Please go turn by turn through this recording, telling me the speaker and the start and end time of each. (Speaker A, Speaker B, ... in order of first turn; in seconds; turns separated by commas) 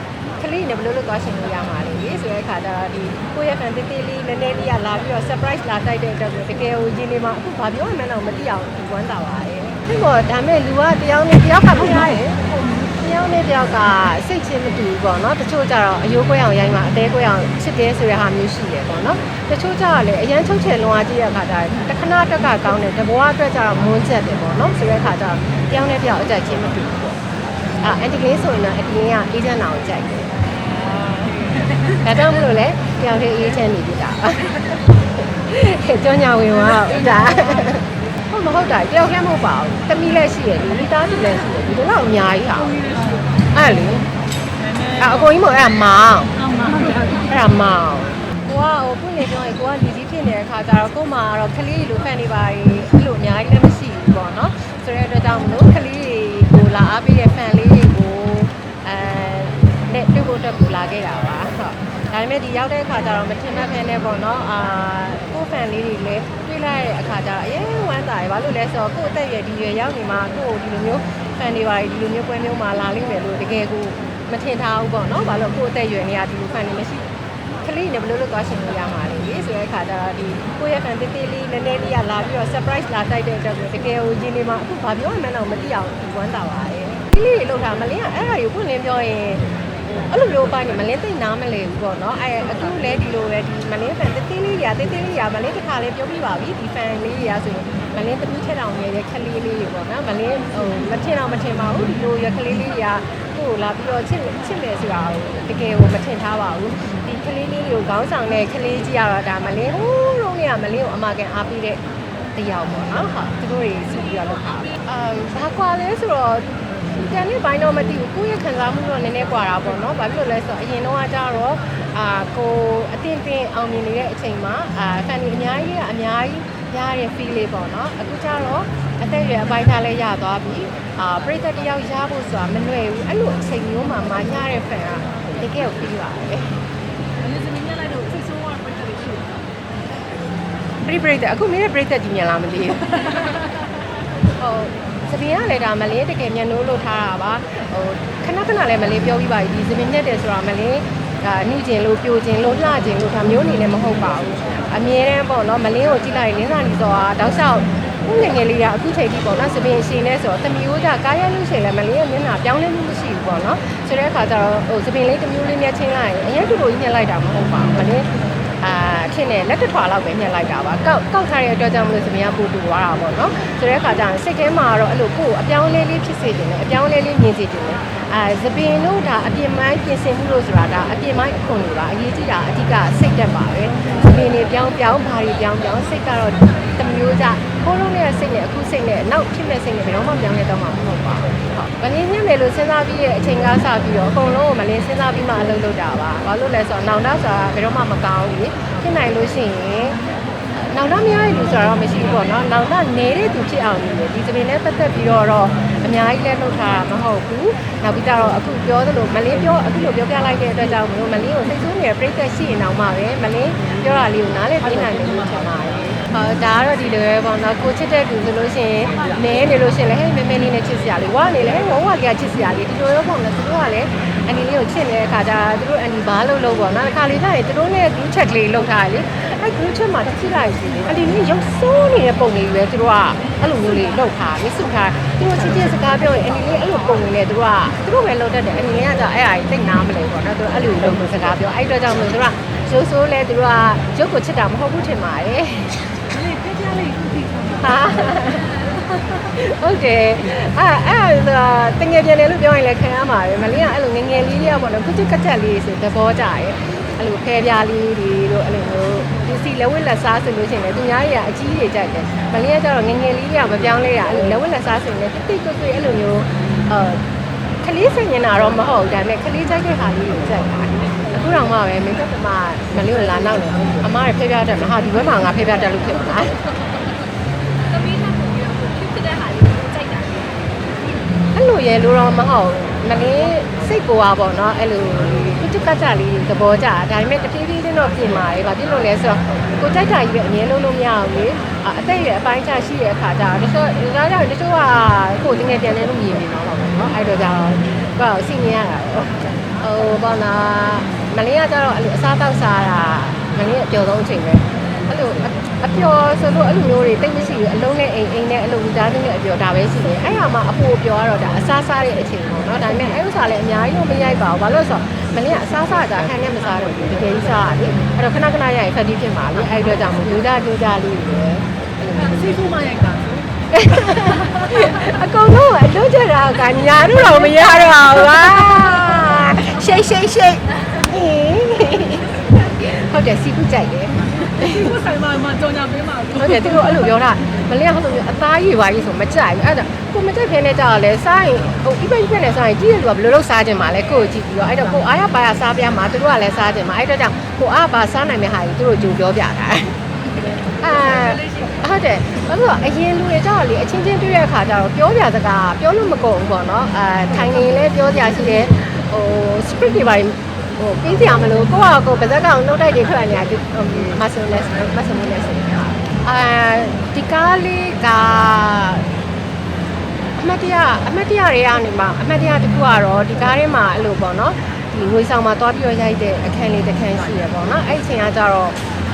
Speaker A: 0.3-27.2, Speaker A: 27.8-30.3, Speaker B: 31.0-31.4, Speaker A: 31.9-42.8, Speaker B: 42.8-43.2, Speaker A: 43.5-44.1, Speaker A: 45.0-46.4, Speaker B: 46.4-47.2, Speaker A: 47.2-77.1, Speaker A: 77.6-111.8, Speaker A: 112.3-136.6, Speaker B: 137.2-139.4, Speaker A: 140.8-143.4, Speaker A: 144.4-168.1, Speaker A: 168.6-200.0, Speaker A: 200.6-245.9, Speaker B: 246.1-247.6, Speaker A: 247.6-267.0, Speaker A: 267.6-276.4, Speaker B: 277.6-280.7, Speaker A: 281.3-322.2, Speaker B: 321.9-323.2, Speaker A: 323.5-334.7, Speaker B: 334.4-336.5, Speaker A: 336.1-349.8, Speaker A: 350.5-368.9, Speaker A: 370.1-378.6